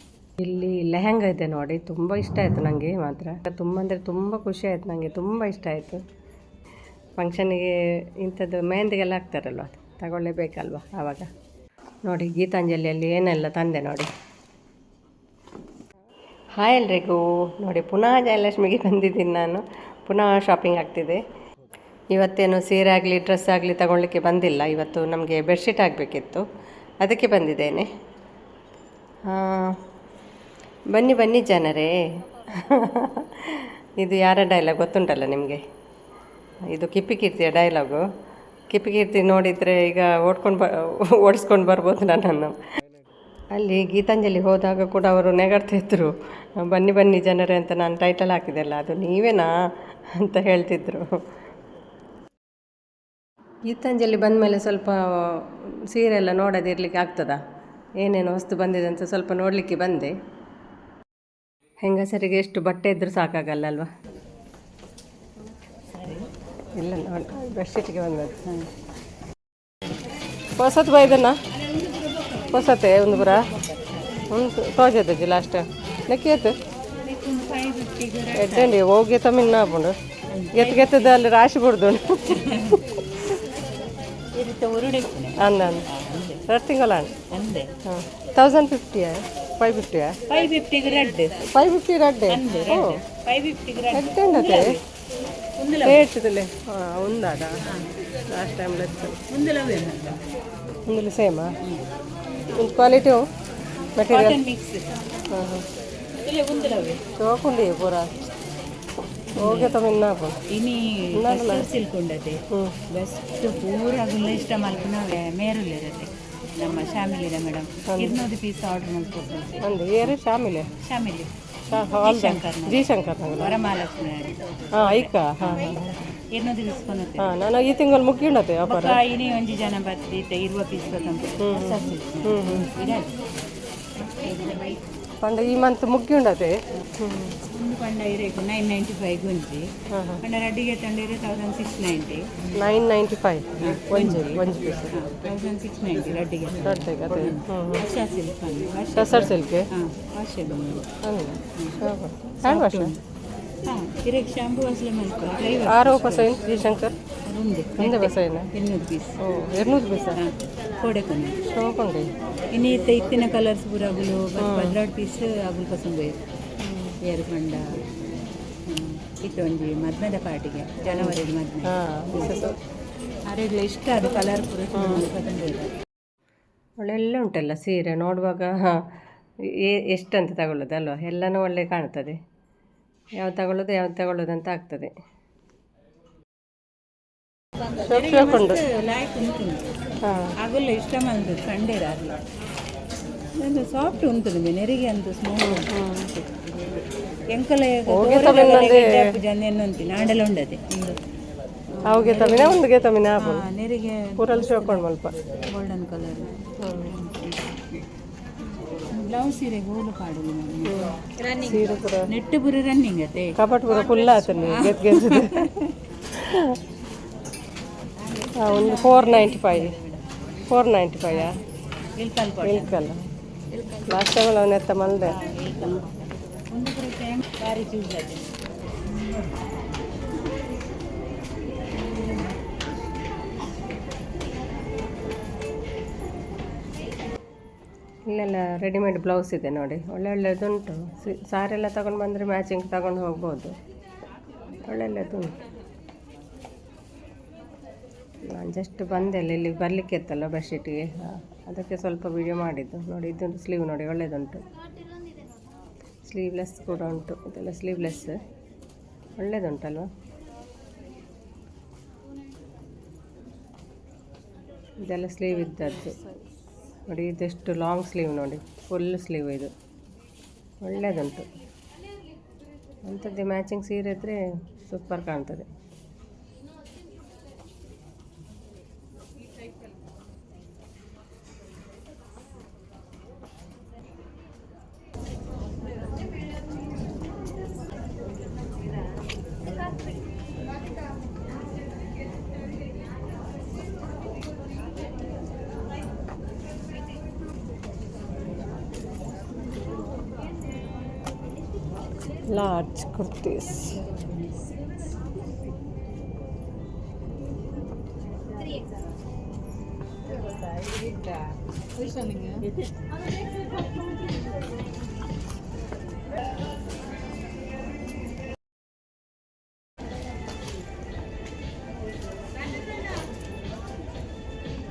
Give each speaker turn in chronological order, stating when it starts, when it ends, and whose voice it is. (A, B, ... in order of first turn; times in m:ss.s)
0:00.4-0:06.0 A
0:07.2-0:11.3 A
0:12.0-0:14.1 A
0:16.6-0:21.2 A
0:22.1-0:26.4 A
0:27.0-0:27.9 A
0:29.3-0:29.8 A
0:30.9-0:35.6 A
0:36.7-0:38.0 A
0:38.7-0:42.6 A
0:43.5-0:49.5 A
0:50.1-0:51.1 A
0:53.7-0:57.4 A
0:58.0-1:00.1 A
1:01.8-1:03.9 A
1:05.9-1:06.3 B
1:06.8-1:08.4 A
1:10.6-1:11.4 A
1:11.8-1:12.5 B
1:12.5-1:13.4 A
1:13.2-1:14.2 B
1:14.3-1:16.6 A
1:16.9-1:18.8 B
1:18.3-1:20.0 A
1:20.3-1:21.2 B
1:20.5-1:22.8 A
1:22.3-1:22.8 B
1:24.3-1:26.4 B
1:25.4-1:25.9 A
1:26.5-1:27.2 A
1:27.3-1:27.7 B
1:27.8-1:30.2 A
1:30.3-1:31.5 B
1:31.5-1:33.0 A
1:32.3-1:34.8 B
1:33.9-1:34.8 A
1:35.6-1:36.0 B
1:35.8-1:37.5 A
1:38.3-1:39.2 A
1:39.3-1:40.2 B
1:40.9-1:41.5 A
1:42.5-1:43.2 A
1:44.0-1:44.4 A
1:44.1-1:44.9 B
1:45.3-1:45.7 A
1:46.2-1:47.0 B
1:47.2-1:48.2 A
1:49.4-1:49.8 B
1:49.4-1:50.4 A
1:50.5-2:00.1 B
1:51.2-1:51.7 A
1:52.5-1:52.8 A
1:57.9-1:58.2 A
1:59.6-2:00.7 A
2:00.8-2:01.3 B
2:01.7-2:03.6 A
2:02.0-2:07.3 B
2:04.8-2:06.0 A
2:07.2-2:09.0 A
2:08.6-2:13.2 B
2:11.4-2:12.7 A
2:14.1-2:14.8 B
2:15.2-2:17.4 A
2:17.5-2:19.7 B
2:19.9-2:20.2 A
2:20.2-2:22.6 B
2:22.6-2:25.0 A
2:23.6-2:30.9 B
2:26.6-2:27.8 A
2:29.0-2:29.7 A
2:31.0-2:32.9 A
2:31.6-2:31.8 B
2:32.4-2:33.0 B
2:33.6-2:36.4 B
2:35.6-2:37.0 A
2:37.3-2:39.2 B
2:37.8-2:38.5 A
2:39.2-2:40.2 A
2:40.1-2:41.4 B
2:41.5-2:42.1 A
2:42.5-2:46.2 B
2:44.4-2:44.8 A
2:46.6-2:47.0 A
2:47.0-2:47.7 B
2:48.7-2:51.8 B
2:50.9-2:52.6 A
2:53.3-2:55.7 B
2:54.7-2:55.1 A
2:56.8-2:58.9 A
2:59.5-3:02.2 A
3:03.2-3:04.9 A
3:07.8-3:08.6 A
3:07.8-3:09.6 B
3:10.0-3:10.3 A
3:10.4-3:12.2 B
3:13.4-3:16.7 B
3:15.4-3:16.1 A
3:17.3-3:21.0 B
3:17.9-3:19.2 A
3:21.7-3:22.6 B
3:21.9-3:23.5 A
3:23.2-3:24.9 B
3:24.2-3:25.2 A
3:25.4-3:27.6 B
3:26.6-3:27.0 A
3:28.8-3:31.4 B
3:30.6-3:32.1 A
3:32.0-3:35.8 B
3:33.4-3:35.6 A
3:36.1-3:36.6 A
3:38.0-3:40.2 B
3:38.4-3:39.8 A
3:40.5-3:41.4 A
3:42.0-3:42.8 B
3:42.4-3:43.0 A
3:43.8-3:45.3 A
3:45.0-3:48.3 B
3:48.9-3:49.4 B
3:58.1-4:03.5 A
4:04.6-4:05.4 A
4:08.3-4:14.4 A
4:16.0-4:18.2 A
4:19.2-4:19.9 A
4:24.9-4:26.0 A
4:26.9-4:29.5 A
4:30.6-4:31.3 A
4:32.9-4:35.5 A
5:02.3-5:03.9 A
5:12.0-5:12.4 B